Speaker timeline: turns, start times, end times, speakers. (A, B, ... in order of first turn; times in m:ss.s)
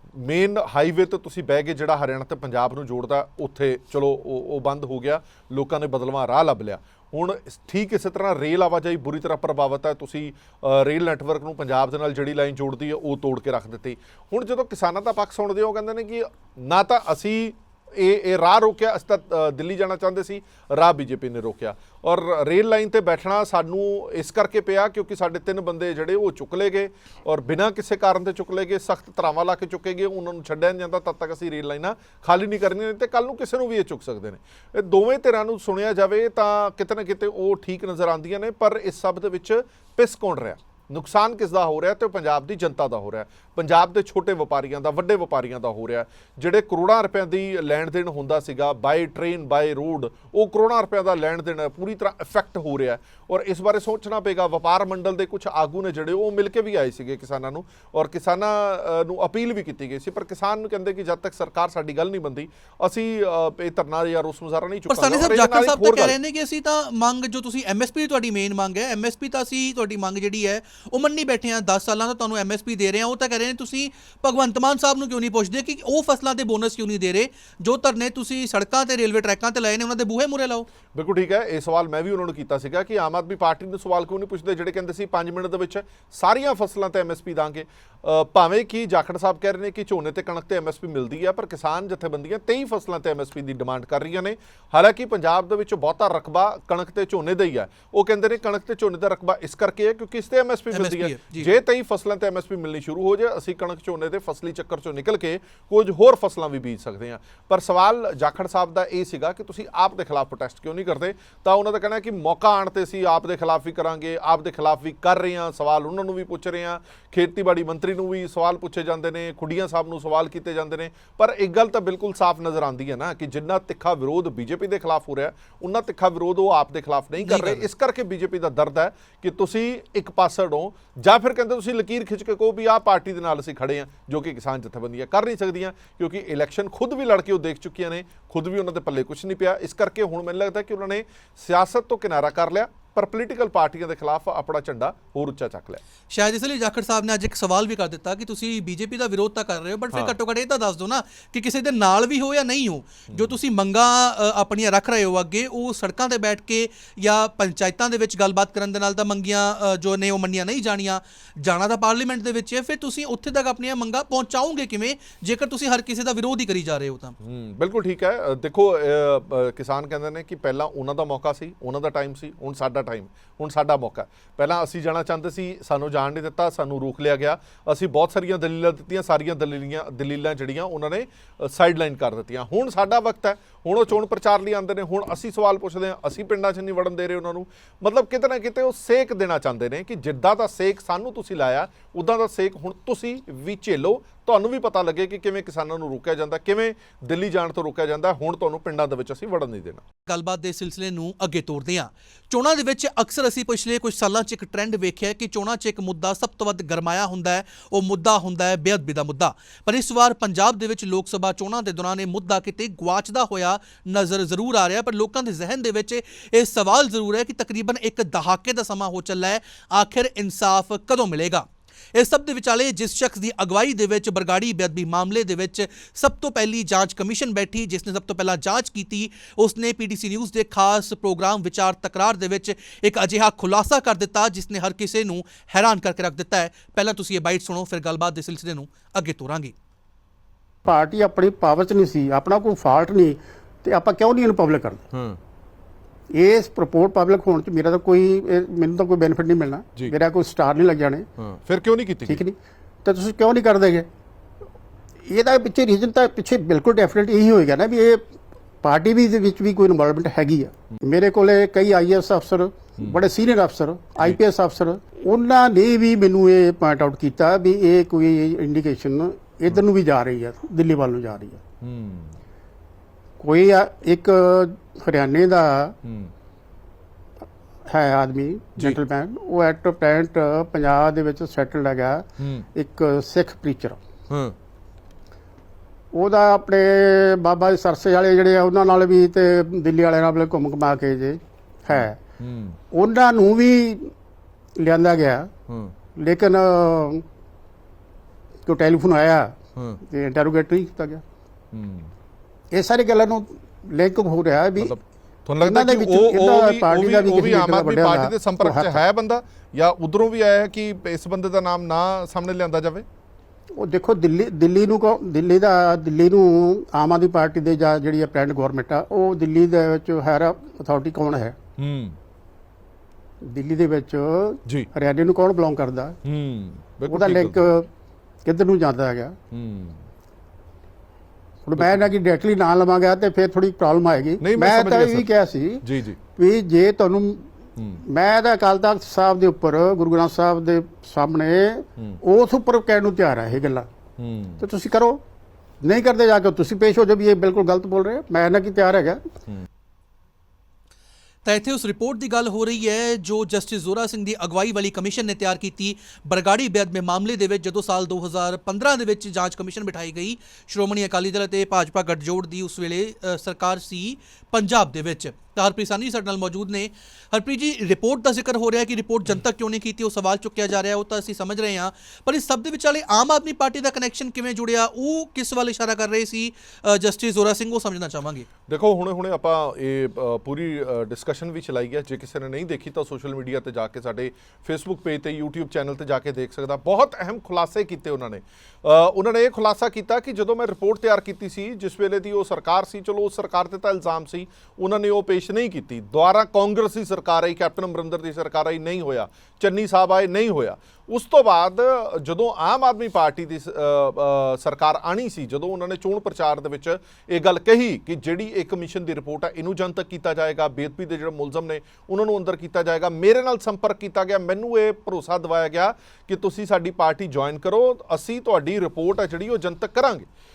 0:00.1-1:06.2 A
1:04.9-1:20.7 B
1:20.9-2:25.8 A
1:40.7-1:41.5 B
2:07.2-2:07.7 B
2:26.1-2:47.2 B
2:33.1-2:33.4 A
2:47.2-3:19.8 A
3:20.1-3:59.5 B
4:00.6-4:04.8 C
4:04.9-4:05.2 A
4:06.1-4:11.1 C
4:11.2-4:12.2 A
4:12.0-4:13.9 C
4:15.1-4:18.0 C
4:18.6-4:31.4 C
4:31.6-4:32.2 A
4:33.2-4:35.8 C
4:35.8-4:36.1 A
4:37.7-4:43.8 C
4:42.2-4:42.5 A
4:44.1-4:44.3 A
4:45.9-4:52.0 C
4:51.7-4:52.6 A
4:52.7-4:53.9 C
4:54.6-4:55.3 C
4:55.5-4:55.7 A
4:56.0-4:57.0 C
4:58.4-5:01.0 C
5:01.5-5:01.9 A
5:02.5-5:04.7 C
5:04.6-5:12.8 A
5:05.4-5:08.8 C
5:13.6-5:21.4 C
5:21.6-5:22.0 A
5:23.2-5:26.0 C
5:26.0-5:27.4 A
5:26.9-5:27.7 C
5:28.2-5:29.2 C
5:29.3-5:29.8 A
5:31.4-5:37.2 C
5:31.6-5:31.9 A
5:34.2-5:35.1 A
5:35.6-5:36.0 A
5:37.6-5:37.8 A
5:37.8-5:43.7 C
5:44.0-5:44.4 A
5:44.4-5:45.0 C
5:45.6-5:49.0 C
5:51.2-6:18.3 B
6:18.5-7:00.1 A